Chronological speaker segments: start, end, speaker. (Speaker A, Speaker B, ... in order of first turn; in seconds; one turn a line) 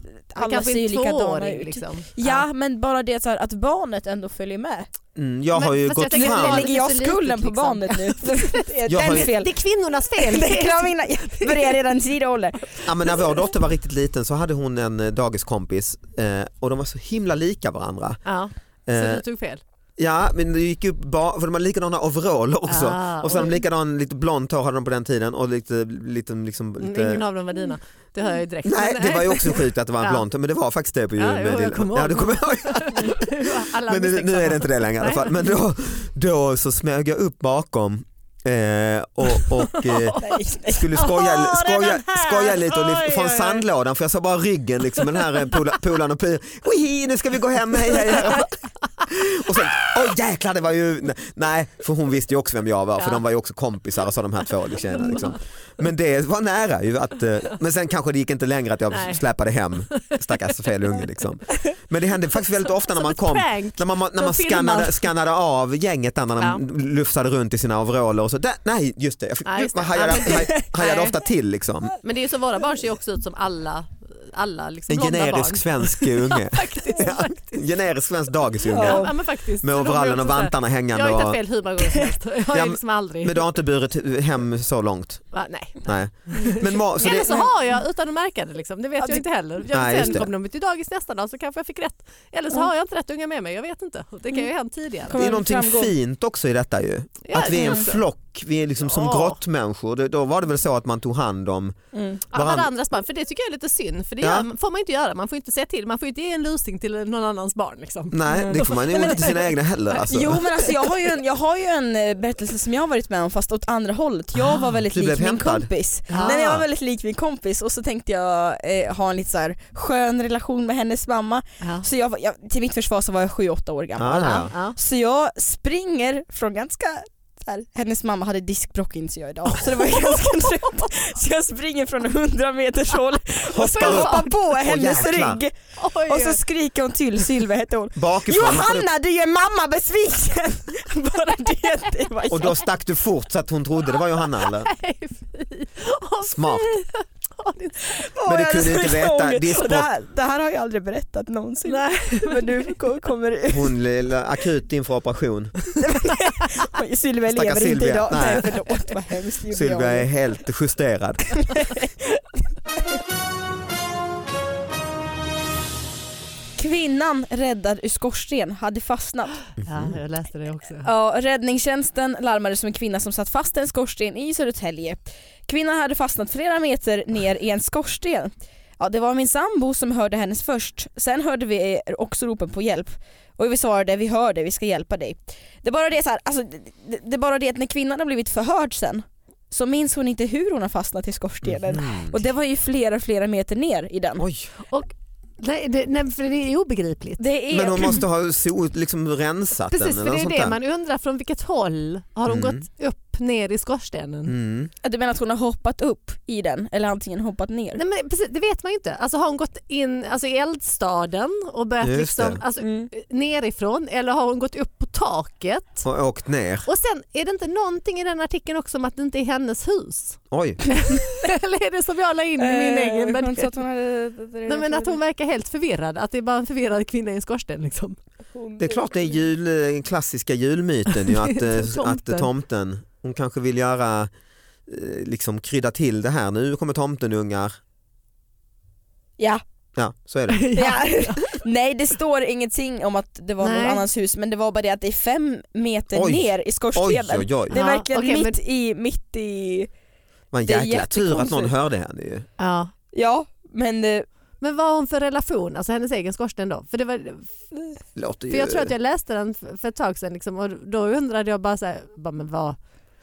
Speaker A: 0.3-4.9
Speaker B: 0.3-2.5
Speaker C: 5.2-6.7
Speaker B: 5.5-11.8
Speaker A: 6.1-9.5
Speaker C: 8.9-9.3
Speaker A: 10.2-12.9
Speaker C: 12.8-18.2
Speaker B: 18.2-19.6
Speaker C: 18.9-19.2
Speaker C: 20.0-27.2
Speaker B: 22.7-23.6
Speaker B: 26.8-30.2
Speaker C: 28.6-40.2
Speaker B: 31.2-35.5
Speaker B: 39.5-40.4
Speaker A: 40.2-40.9
Speaker C: 40.7-72.0
Speaker B: 40.9-43.6
Speaker B: 54.9-55.4
Speaker B: 58.9-59.2
Speaker B: 59.9-60.2
Speaker B: 62.8-65.1
Speaker B: 69.5-71.1
Speaker A: 70.5-70.7
Speaker B: 72.0-77.6
Speaker C: 74.9-81.4
Speaker A: 78.7-79.1
Speaker B: 78.8-83.4
Speaker C: 82.5-87.4
Speaker B: 85.3-95.2
Speaker A: 87.0-87.5
Speaker A: 89.0-89.2
Speaker C: 89.7-90.3
Speaker A: 95.1-95.9
Speaker C: 95.1-101.8
Speaker B: 97.2-98.0
Speaker B: 98.8-99.4
Speaker A: 101.9-102.2
Speaker C: 102.3-102.7
Speaker B: 102.3-109.4
Speaker C: 104.2-104.5
Speaker C: 108.1-110.4
Speaker A: 108.3-109.4
Speaker A: 110.1-142.7
Speaker C: 114.9-116.7
Speaker B: 116.1-116.4
Speaker B: 121.6-121.9
Speaker C: 124.0-124.5
Speaker B: 124.2-124.8
Speaker B: 129.7-130.6
Speaker B: 133.5-134.4
Speaker C: 133.5-135.4
Speaker B: 135.8-136.4
Speaker C: 137.9-138.9
Speaker C: 142.3-144.7
Speaker B: 144.2-148.1
Speaker C: 146.2-146.8
Speaker A: 148.0-153.7
Speaker C: 148.3-149.9
Speaker B: 151.7-152.7
Speaker C: 153.5-155.6
Speaker A: 155.8-160.1
Speaker C: 157.3-158.6
Speaker C: 159.5-161.4
Speaker A: 161.4-162.2
Speaker A: 166.6-169.4
Speaker C: 169.6-169.9
Speaker B: 169.7-170.9
Speaker A: 170.8-194.2
Speaker C: 191.4-192.2
Speaker C: 194.2-194.5
Speaker B: 194.7-197.2
Speaker A: 197.2-198.0
Speaker C: 197.5-200.6
Speaker B: 199.7-204.3
Speaker C: 202.3-202.6
Speaker C: 204.3-204.7
Speaker A: 204.8-207.8
Speaker B: 207.8-215.8
Speaker C: 211.8-212.4
Speaker A: 212.6-212.9
Speaker C: 215.8-216.7
Speaker B: 216.7-223.6
Speaker C: 220.3-220.6
Speaker A: 222.4-225.0
Speaker B: 224.5-228.0
Speaker A: 228.3-228.9
Speaker C: 228.6-234.1
Speaker B: 231.1-232.3
Speaker C: 234.7-237.6
Speaker C: 239.8-240.5
Speaker B: 240.3-241.4
Speaker A: 240.5-249.7
Speaker B: 243.4-243.8
Speaker C: 245.9-247.6
Speaker B: 247.5-248.4
Speaker C: 250.3-252.3
Speaker A: 250.4-251.5
Speaker B: 252.4-252.7
Speaker A: 252.9-254.1
Speaker B: 254.4-257.5
Speaker C: 258.0-258.7
Speaker B: 258.3-262.6